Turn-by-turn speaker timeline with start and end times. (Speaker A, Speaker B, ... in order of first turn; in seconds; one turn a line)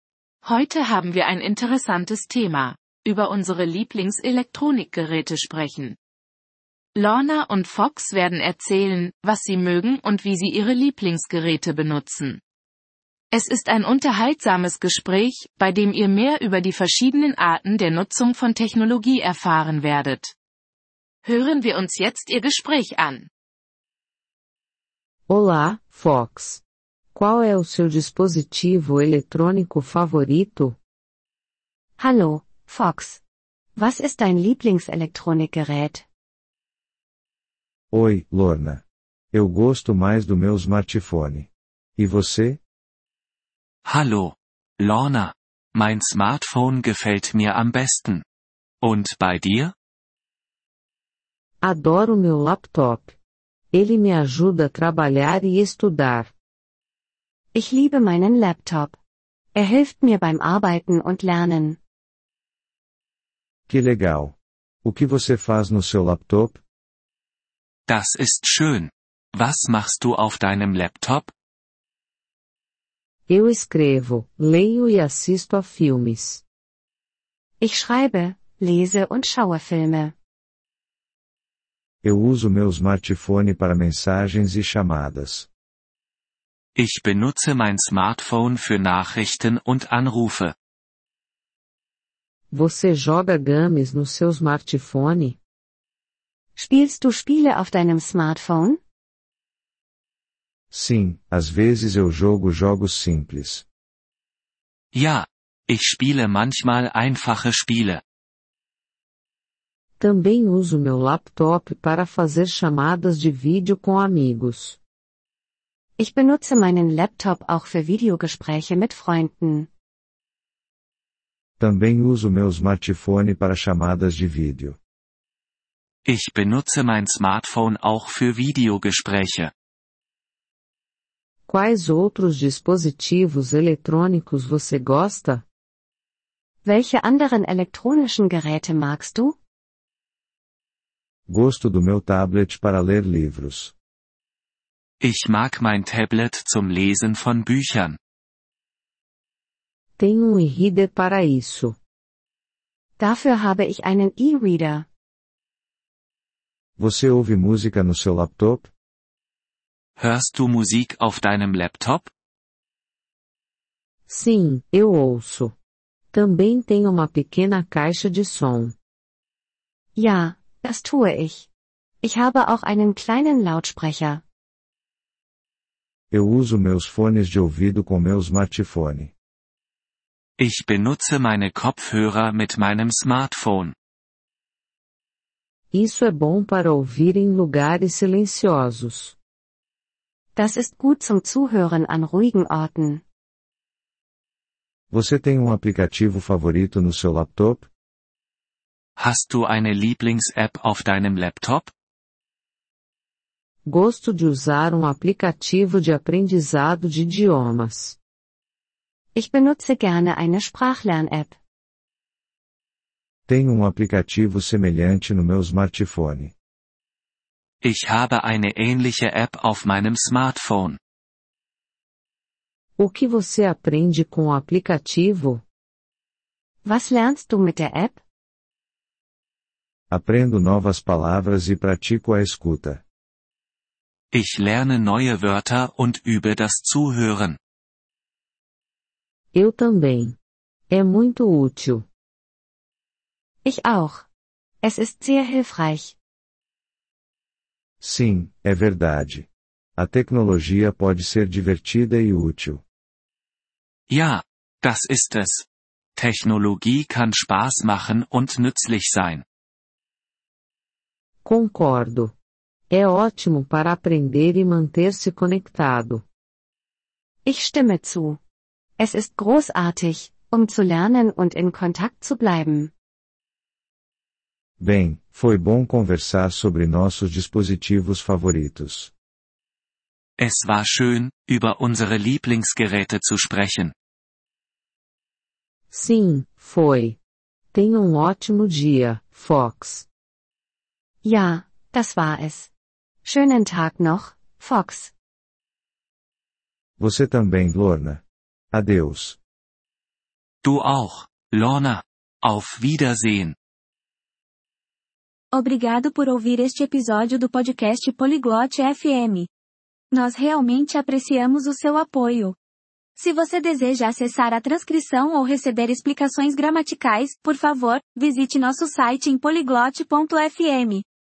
Speaker A: 0.4-6.0
Speaker A: 7.0-12.4
Speaker A: 13.3-20.3
Speaker A: 21.2-23.3
Speaker B: 25.3-26.6
Speaker B: 27.1-30.8
Speaker C: 32.0-33.2
Speaker C: 33.8-36.0
Speaker D: 37.9-42.6
Speaker E: 43.9-48.2
Speaker E: 48.8-49.7
Speaker B: 51.6-53.1
Speaker B: 53.7-56.3
Speaker C: 57.5-59.0
Speaker C: 59.5-61.8
Speaker D: 63.7-66.6
Speaker E: 67.9-71.3
Speaker B: 73.3-76.4
Speaker C: 77.6-80.1
Speaker D: 82.0-85.5
Speaker E: 86.8-90.5
Speaker B: 92.5-95.4
Speaker C: 96.6-98.8
Speaker D: 100.7-103.7
Speaker E: 104.9-108.0
Speaker B: 110.0-114.8
Speaker C: 116.0-119.7
Speaker D: 121.6-124.8
Speaker E: 126.0-129.5
Speaker B: 131.5-135.4
Speaker C: 136.6-139.4
Speaker D: 141.3-143.7
Speaker E: 145.0-148.0
Speaker B: 150.0-151.8
Speaker C: 153.0-154.9
Speaker D: 156.8-158.7
Speaker E: 160.0-162.1
Speaker B: 164.1-165.5
Speaker B: 166.1-168.8
Speaker C: 170.0-171.5
Speaker C: 172.0-174.2
Speaker D: 176.1-179.1
Speaker E: 180.4-183.8
Speaker B: 185.7-189.2
Speaker C: 190.4-193.0
Speaker D: 194.9-197.7
Speaker E: 199.0-201.7
Speaker B: 203.7-208.0
Speaker C: 209.2-211.4
Speaker D: 213.3-216.3
Speaker E: 217.6-220.8
Speaker B: 222.8-225.4
Speaker C: 226.6-228.0
Speaker D: 229.9-232.8
Speaker E: 234.1-237.4
Speaker B: 239.3-240.2
Speaker B: 240.7-241.8
Speaker C: 243.4-244.1
Speaker C: 244.6-245.9
Speaker D: 247.8-252.6
Speaker E: 253.9-259.2
Speaker B: 261.2-262.1
Speaker B: 262.7-266.0
Speaker C: 267.2-268.2
Speaker C: 268.8-272.7
Speaker D: 274.6-278.9
Speaker E: 280.2-283.7
Speaker B: 285.7-287.0
Speaker B: 287.5-289.9
Speaker C: 291.0-292.5
Speaker C: 293.0-294.9
Speaker D: 296.8-299.2
Speaker E: 300.4-303.4
Speaker F: 305.3-309.3
Speaker F: 309.9-312.4
Speaker F: 313.0-320.8